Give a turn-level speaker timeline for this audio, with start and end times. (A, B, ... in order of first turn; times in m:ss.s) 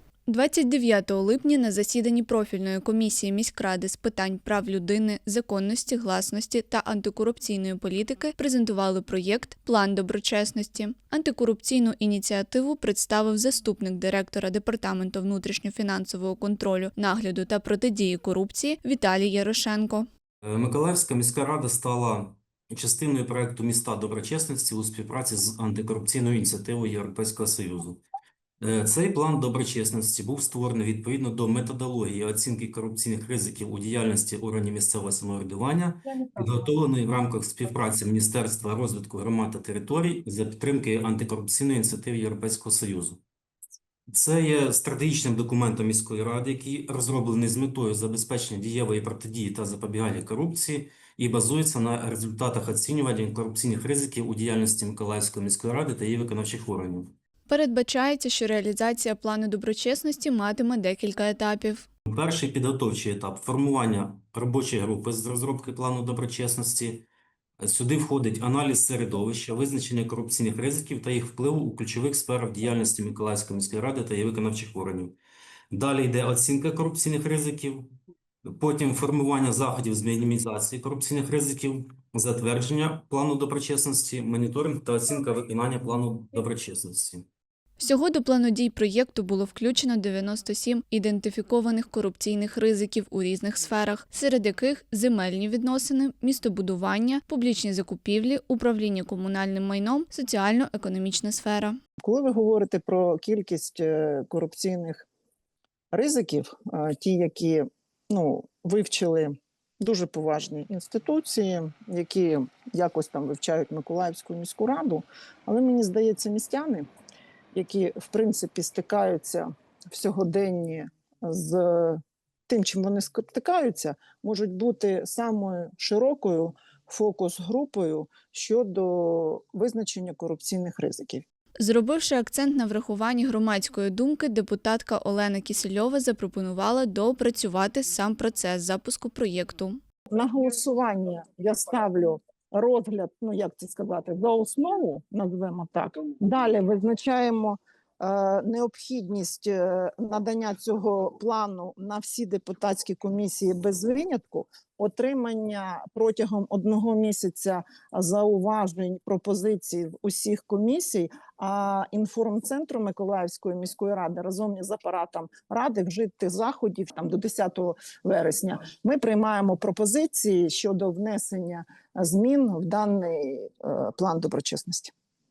0:00.3-0:20.0 A
0:20.4-0:28.0 B
0:28.6-0:43.2 B
0:44.1-0:57.1 B
0:57.5-1:01.9 A
1:02.1-1:07.1 B
1:07.6-1:15.2 B
1:15.7-1:17.9 B
1:18.4-1:27.3 B
1:27.8-1:41.8 A
1:42.0-1:45.1 C
1:45.9-1:56.9 C
1:57.5-2:11.2 C
2:11.6-2:19.8 A
2:20.1-2:54.9 C